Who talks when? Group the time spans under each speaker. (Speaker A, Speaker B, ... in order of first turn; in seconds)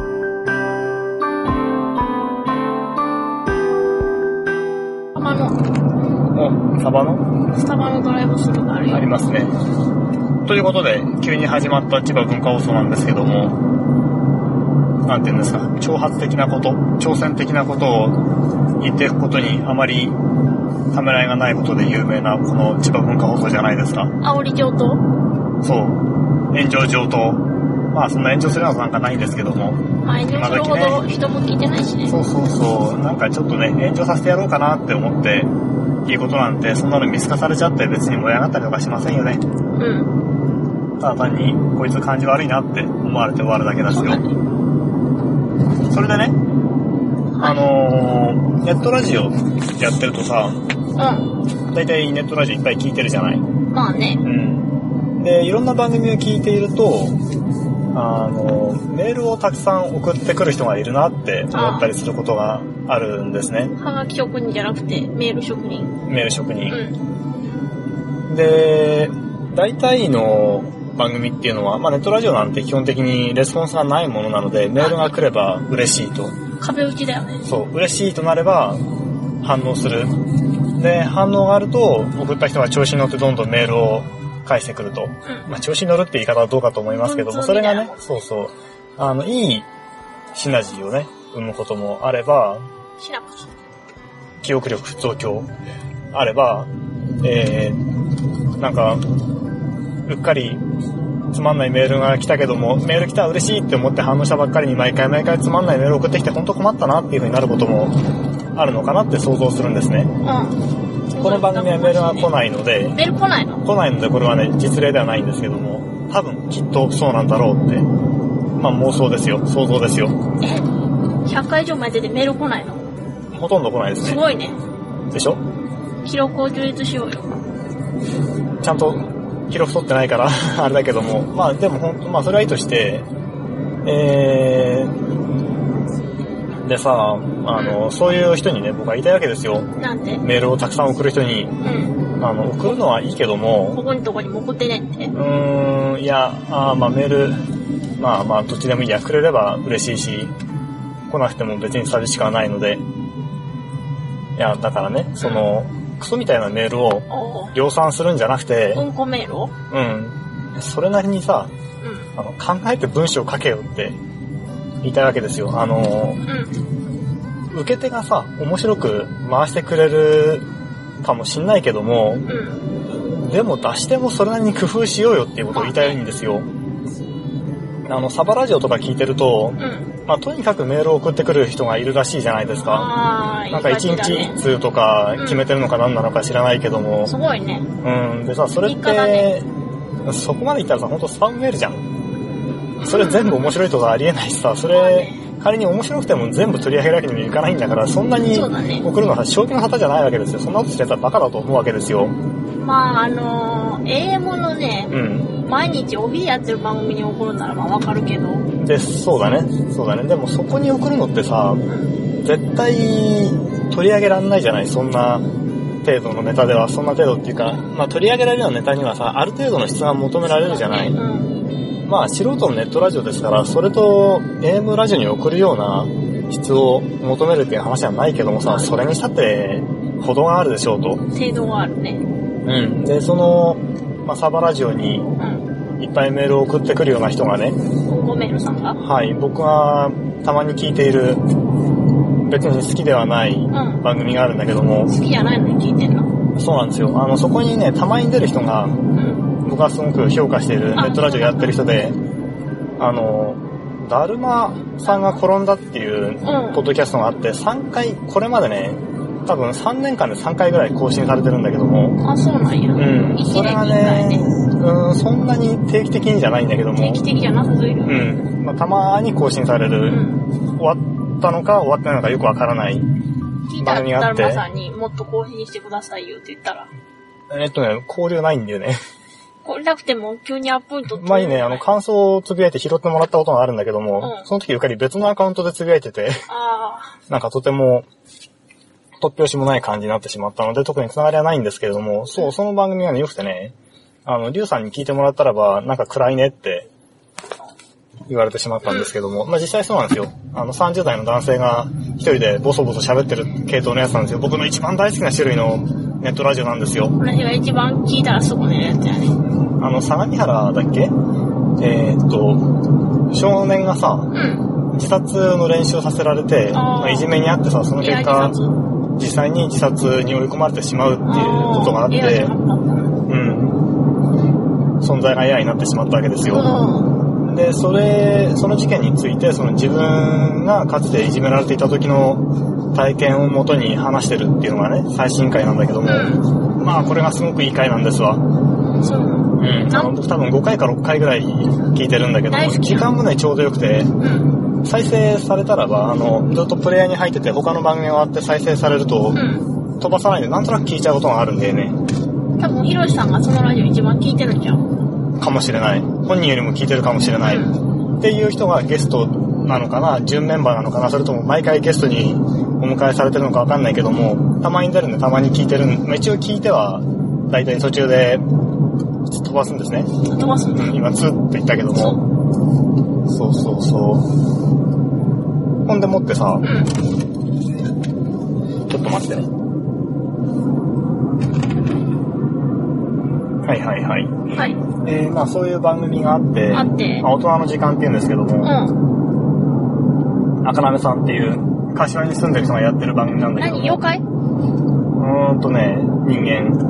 Speaker A: 5.1-5.6, 7.5-9.1, 24.2-25.0, 30.0-32.2, 39.8-40.1, 43.9-44.3, 47.4-47.7, 51.0-51.3, 53.7-54.2, 61.5-61.9, 63.8-66.0, 66.7-67.0, 74.8-75.1, 76.6-77.4, 86.9-88.1, 93.0-93.5, 110.2-110.6, 111.1-112.3, 112.9-113.6, 120.4-120.7, 121.2-122.8, 124.0-124.6, 126.0-127.3, 137.5-137.8, 139.8-140.2, 141.6-142.0, 143.7-145.1, 155.2-155.5, 157.1-157.6, 158.7-159.5, 161.8-162.1, 166.2-166.5, 172.3-172.6, 175.5-176.0, 179.6-179.9, 182.6-184.4, 185.2-185.5, 187.0-187.7, 188.6-189.3, 192.8-193.5, 194.7-195.2, 198.3-198.9, 202.6-208.5, 211.7-211.9, 220.2-221.3, 228.4-228.8, 231.1-232.0, 235.2-235.4, 237.8-238.8, 243.5-243.8, 244.9-246.1, 248.9-249.3, 250.7-251.7, 256.2-256.6, 262.0-264.2, 266.8-268.2, 269.9-270.2, 273.5-276.7, 279.4-281.7, 284.0-284.2, 286.3-286.9, 298.6-298.9, 307.0-309.2, 314.1-314.5, 316.5-317.1, 317.8-318.6, 321.0-323.0, 326.2-326.9, 335.9-336.2, 338.8-339.9, 342.3-342.9, 344.0-344.4, 349.1-349.4, 352.4-354.6, 357.2-357.6, 370.1-370.8, 371.7-372.0, 376.4-376.7, 384.3-384.6, 386.5-387.1, 388.4-388.8, 393.4-394.0
Speaker B: 6.3-7.4, 8.9-9.5, 10.4-13.6, 15.1-18.2, 18.8-20.2, 20.9-24.1, 25.6-31.0, 32.1-35.5, 36.0-39.4, 41.0-44.2, 45.9-46.4, 47.4-50.6, 51.7-53.4, 54.2-57.2, 57.9-63.7, 66.0-66.8, 68.2-76.4, 77.4-78.8, 79.4-80.1, 80.7-89.7, 90.3-92.6, 94.4-95.5, 96.1-96.7, 97.2-97.8, 98.6-99.0, 100.0-100.6, 101.3-108.0, 108.5-110.1, 111.2-113.0, 113.6-117.9, 118.5-120.2, 123.3-124.2, 125.1-125.4, 128.6-133.1, 133.8-134.9, 136.6-139.7, 140.2-141.6, 142.2-143.8, 145.1-147.4, 148.0-150.3, 151.1-152.8, 154.3-158.9, 159.7-161.5, 162.1-164.0, 164.8-166.2, 167.5-170.5, 171.0-172.3, 173.1-176.5, 177.8-182.9, 183.5-187.1, 187.8-189.5, 190.0-191.8, 192.8-202.2, 204.9-205.4, 208.6-211.6, 212.2-215.3, 215.8-221.0, 221.8-231.0, 232.4-235.1, 235.8-237.6, 238.8-241.2, 242.2-244.9, 246.3-248.8, 249.4-252.0, 252.8-262.0, 262.7-267.1, 267.9-270.0, 270.5-272.9, 273.6-274.4, 277.3-278.8, 280.9-286.2, 287.1-287.9, 289.0-296.7, 298.1-306.9, 309.6-310.9, 311.6-312.5, 313.1-314.1, 314.7-318.4, 319.0-322.3, 323.1-323.6, 324.8-326.5, 327.2-338.2, 339.3-343.9, 344.6-349.2, 349.8-351.8, 355.2-368.2, 369.1-370.0, 370.5-372.0, 373.1-374.1, 375.6-376.5, 378.7-379.3, 383.4-388.5, 390.4-393.8, 394.9-396.6